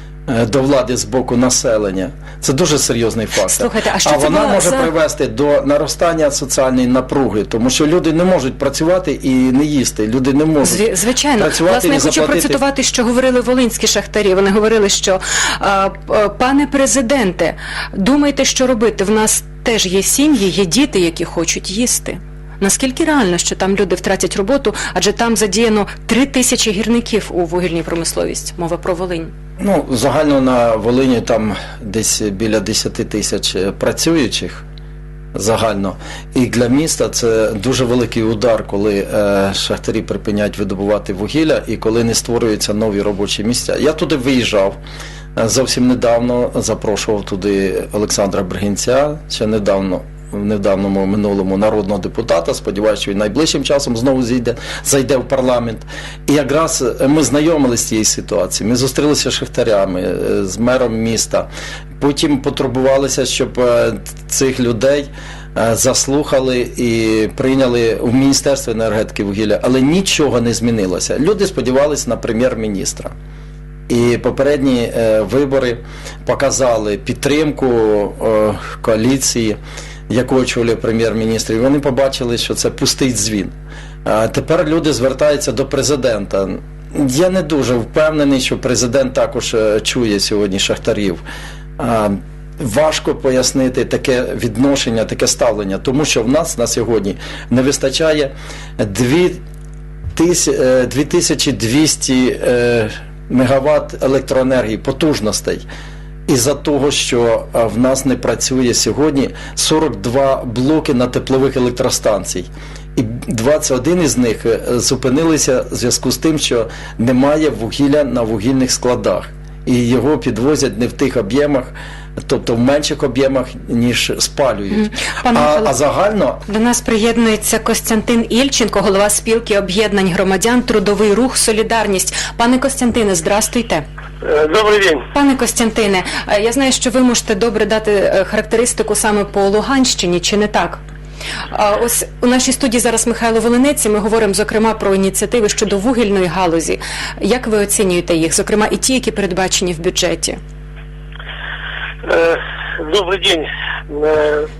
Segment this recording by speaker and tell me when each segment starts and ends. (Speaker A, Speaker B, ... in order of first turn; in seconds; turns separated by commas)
Speaker A: 0.3-10.8, Speaker B: 3.5-4.9, Speaker B: 10.6-29.3, Speaker A: 11.4-12.6, Speaker A: 29.6-34.6, Speaker A: 35.3-44.8, Speaker A: 45.4-61.5, Speaker A: 62.0-73.1, Speaker A: 73.9-79.6, Speaker A: 80.1-83.5, Speaker A: 84.0-91.2, Speaker A: 91.8-99.4, Speaker A: 100.2-105.7, Speaker A: 106.3-126.4, Speaker B: 124.7-125.7, Speaker B: 126.5-133.8, Speaker C: 134.2-135.1, Speaker B: 135.1-140.8, Speaker B: 141.5-150.4, Speaker C: 152.0-154.5